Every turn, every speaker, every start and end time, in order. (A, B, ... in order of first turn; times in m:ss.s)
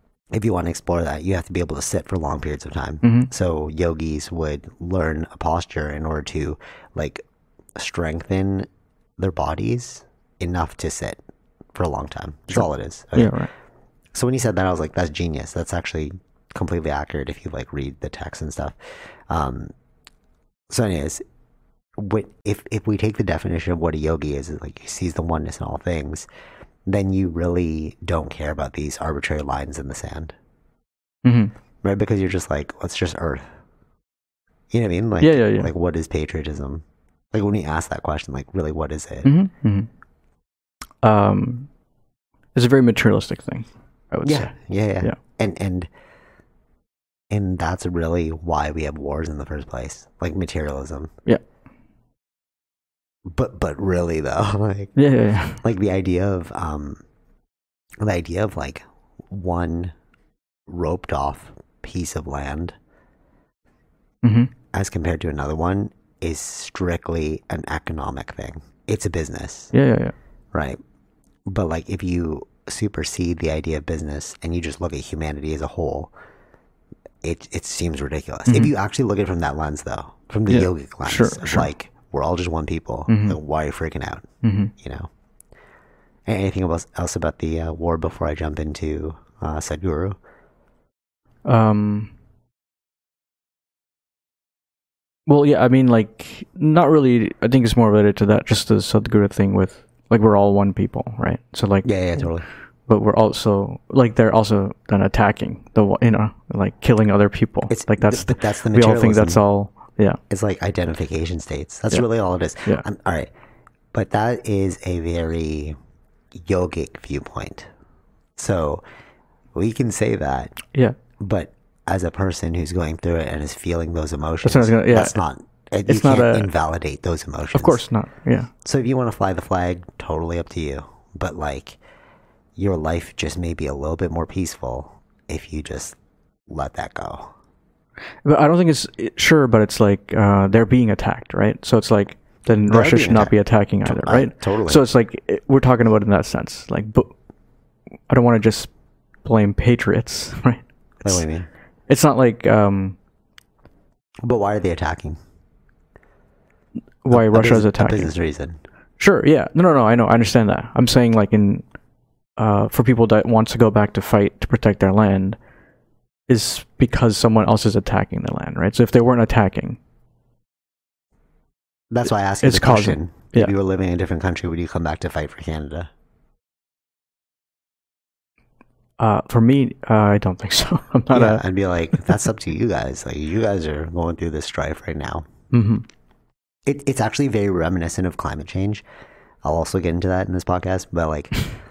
0:00.3-0:07.2 A
0:03.0-0:03.3 B
0:07.8-0:11.2 A
0:11.7-0:13.4 A
0:12.5-0:13.5 B
0:14.1-0:18.8 A
0:19.3-0:19.7 A
0:20.7-0:21.2 A
0:22.0-0:26.3 A
0:26.9-0:30.3 A
0:31.2-0:31.5 B
0:31.8-0:33.5 A
0:34.7-0:39.3 A
0:35.2-0:35.7 B
0:39.2-0:39.9 B
0:41.0-0:41.7 B
0:42.6-0:45.2 B
0:44.2-0:45.9 A
0:47.3-0:51.1 A
0:53.3-0:54.9 A
0:55.0-0:55.6 B
0:55.6-0:57.0 A
0:58.0-0:59.9 A
1:00.7-1:02.8 A
1:04.2-1:04.5 B
1:04.7-1:09.7 A
1:09.7-1:10.1 B
1:10.5-1:10.8 A
1:11.5-1:16.1 A
1:17.2-1:25.1 A
1:20.5-1:21.7 B
1:23.1-1:23.4 B
1:24.4-1:24.7 B
1:26.3-1:30.2 A
1:31.4-1:32.1 B
1:35.3-1:42.3 B
1:41.8-1:42.5 A
1:42.9-1:50.2 B
1:47.7-1:49.4 A
1:50.3-1:53.3 A
1:53.9-1:55.8 A
1:56.4-1:57.7 A
1:58.4-1:58.8 A
1:59.6-2:00.6 A
2:01.2-2:07.8 A
2:04.4-2:05.2 B
2:05.9-2:06.5 B
2:07.5-2:08.5 B
2:08.6-2:11.8 A
2:12.6-2:16.0 A
2:16.5-2:17.3 A
2:18.2-2:27.1 B
2:22.7-2:24.8 A
2:28.1-2:28.7 B
2:29.2-2:31.2 B
2:31.0-2:31.5 A
2:31.9-2:33.0 B
2:34.3-2:35.2 A
2:37.0-2:38.1 B
2:37.1-2:38.6 A
2:39.0-2:41.6 B
2:42.4-2:45.4 B
2:46.3-2:49.8 B
2:51.9-2:55.9 A
2:52.4-2:53.5 B
2:59.0-3:01.4 B
3:01.1-3:05.3 A
3:05.5-3:05.9 B
3:06.7-3:08.8 A
3:09.4-3:11.5 A